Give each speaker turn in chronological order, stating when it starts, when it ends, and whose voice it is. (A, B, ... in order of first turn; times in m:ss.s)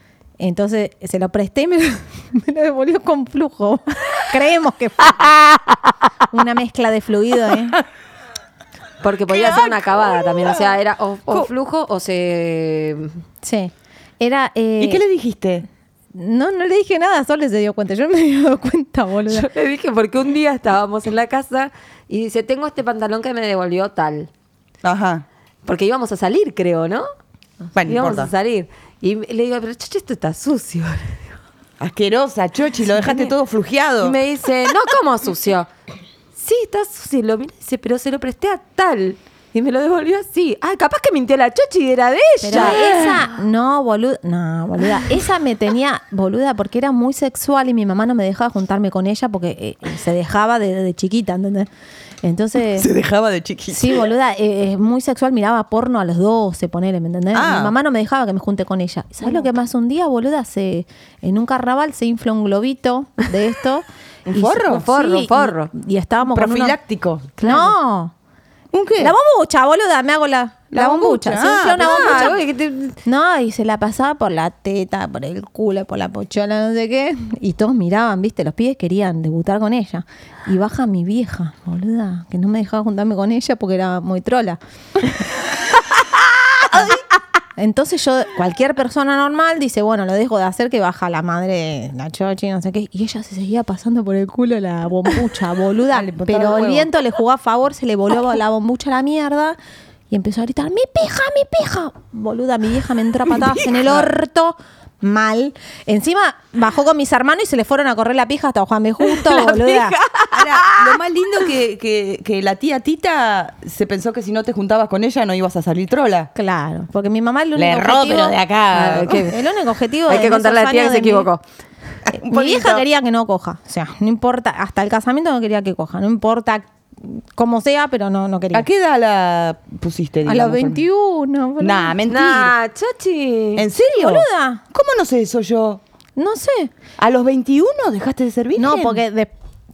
0:00.4-0:05.4 A
0:06.3-0:07.8 A
0:09.0-0:13.2 B
0:09.3-0:10.7 C
0:13.4-0:15.0 A
0:14.8-0:15.6 C
0:16.1-0:19.5 A
0:19.3-0:24.3 B
0:24.8-0:25.2 C
0:25.6-0:27.1 B
0:27.7-0:28.3 C
0:27.8-0:31.3 B
0:31.8-0:34.2 C
0:34.0-0:35.7 B
0:36.4-0:42.8 B
0:42.4-0:51.7 A
0:42.5-0:43.2 C
0:52.2-0:52.9 A
0:52.7-0:54.1 C
0:53.7-1:06.8 A
0:57.3-0:57.7 C
1:04.2-1:04.9 C
1:04.7-1:05.7 B
1:06.3-1:07.3 C
1:07.4-1:07.7 B
1:07.4-1:08.1 A
1:08.7-1:09.1 C
1:09.0-1:12.4 A
1:10.7-1:12.4 C
1:11.8-1:13.0 B
1:13.0-1:25.3 A
1:26.7-1:27.0 A
1:27.6-1:39.6 A
1:35.9-1:36.9 C
1:40.1-1:50.0 A
1:43.3-1:44.1 C
1:49.1-1:50.9 B
1:50.3-1:56.3 C
1:56.4-1:58.4 A
1:57.5-1:59.2 C
1:58.7-1:59.4 B
1:59.0-2:01.3 A
2:00.1-2:01.4 B
2:02.1-2:02.8 C
2:02.1-2:08.6 A
2:08.5-2:10.8 C
2:10.2-2:12.0 A
2:11.6-2:12.5 C
2:12.1-2:13.6 B
2:13.6-2:15.8 C
2:13.7-2:14.6 A
2:16.2-2:16.7 A
2:17.0-2:19.0 C
2:18.6-2:19.3 A